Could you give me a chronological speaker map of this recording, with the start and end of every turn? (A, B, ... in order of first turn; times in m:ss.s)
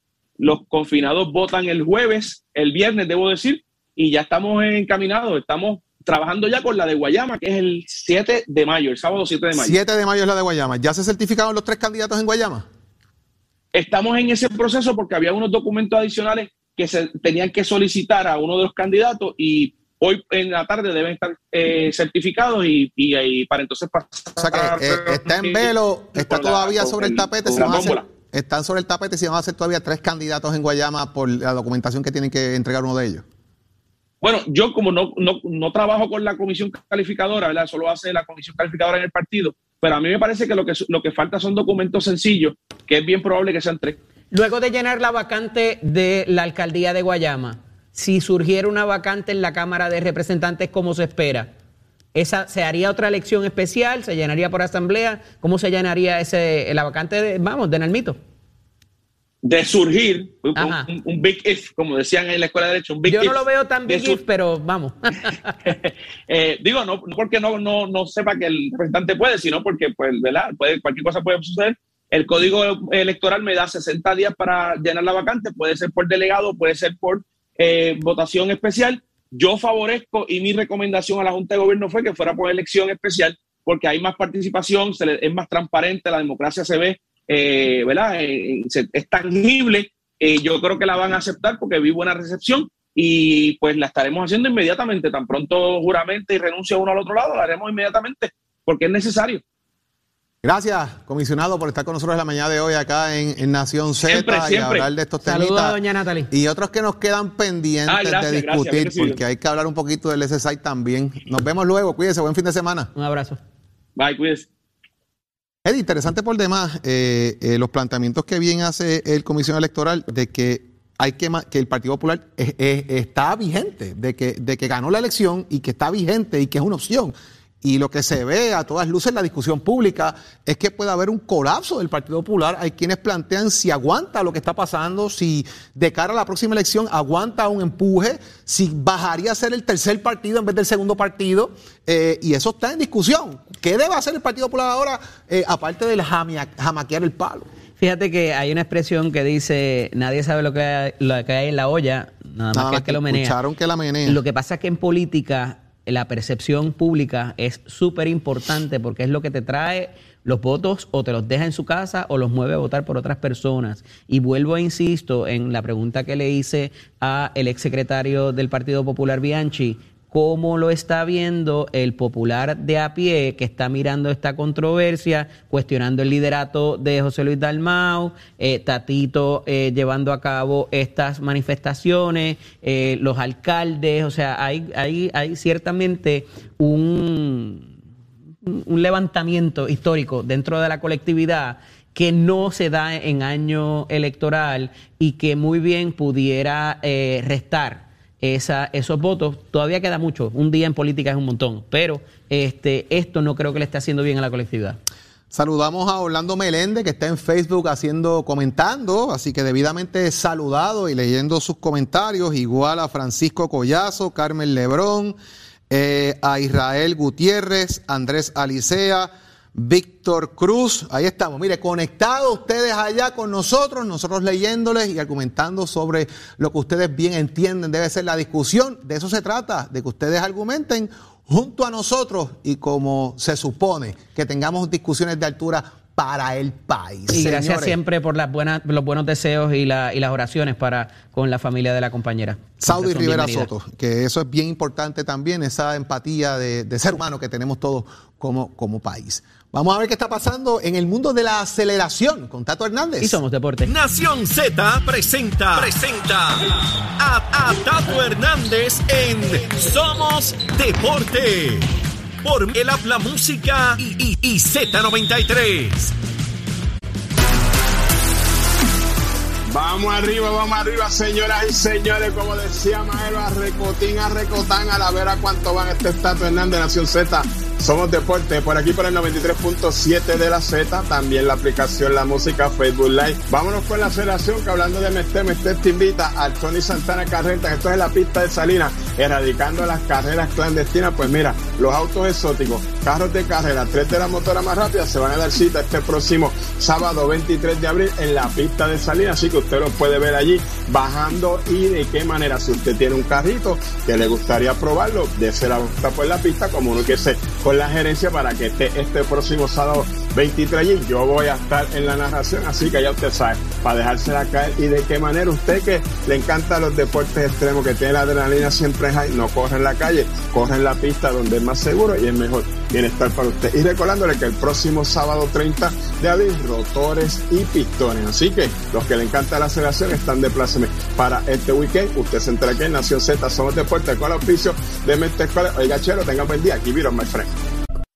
0:00.4-0:09.8 A
0:09.5-0:12.7 B
0:13.7-0:28.0 A
0:24.4-0:33.2 B
0:34.2-0:44.0 A
0:44.3-0:51.5 C
0:52.1-0:58.2 C
0:59.4-1:04.2 A
1:00.6-1:00.9 C
1:03.0-1:05.7 C
1:05.6-1:39.4 A
1:40.4-1:52.9 B
1:44.0-1:44.9 A
1:45.2-1:46.3 C
1:47.9-1:49.2 A
1:53.0-1:53.4 C
1:54.0-1:54.5 A
1:55.6-2:27.5 B
2:27.8-2:33.4 C
2:32.5-2:34.2 B
2:34.0-3:07.7 C
3:08.4-3:24.8 C
3:25.3-3:35.2 B
3:35.7-3:57.8 B
3:57.1-4:03.5 C
4:02.6-4:13.2 B
4:13.0-4:13.7 C
4:13.6-4:16.4 D
4:17.0-4:21.7 D
4:22.2-4:25.9 D
4:29.5-5:37.3 E